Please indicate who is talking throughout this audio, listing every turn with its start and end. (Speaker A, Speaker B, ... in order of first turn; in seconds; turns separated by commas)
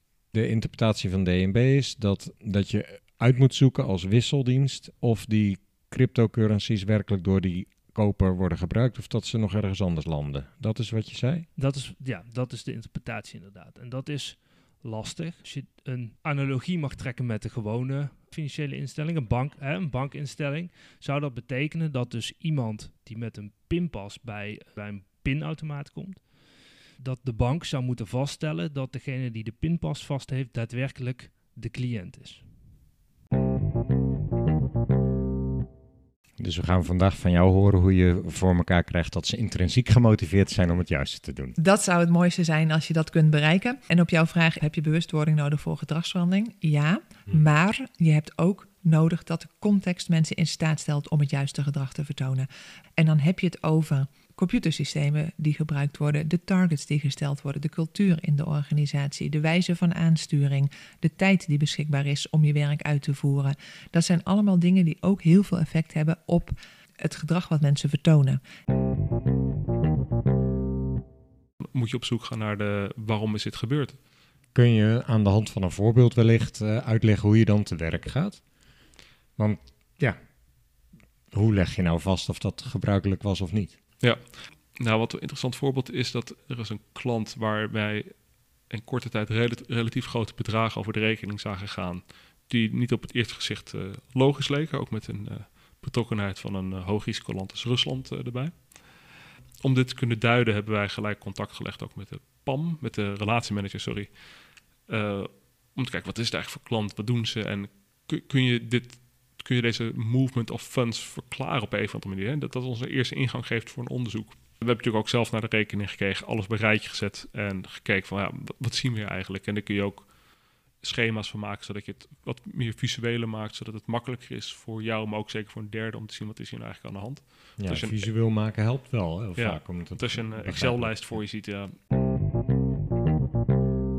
Speaker A: 0.3-11.5, Speaker B: 11.6-32.5, Speaker A: 36.4-41.5, Speaker C: 41.6-68.4, Speaker D: 71.6-74.0, Speaker A: 74.5-78.4, Speaker A: 79.4-80.2, Speaker A: 81.3-83.8, Speaker D: 84.0-99.0, Speaker D: 99.6-128.1, Speaker A: 127.6-131.2, Speaker D: 129.3-131.8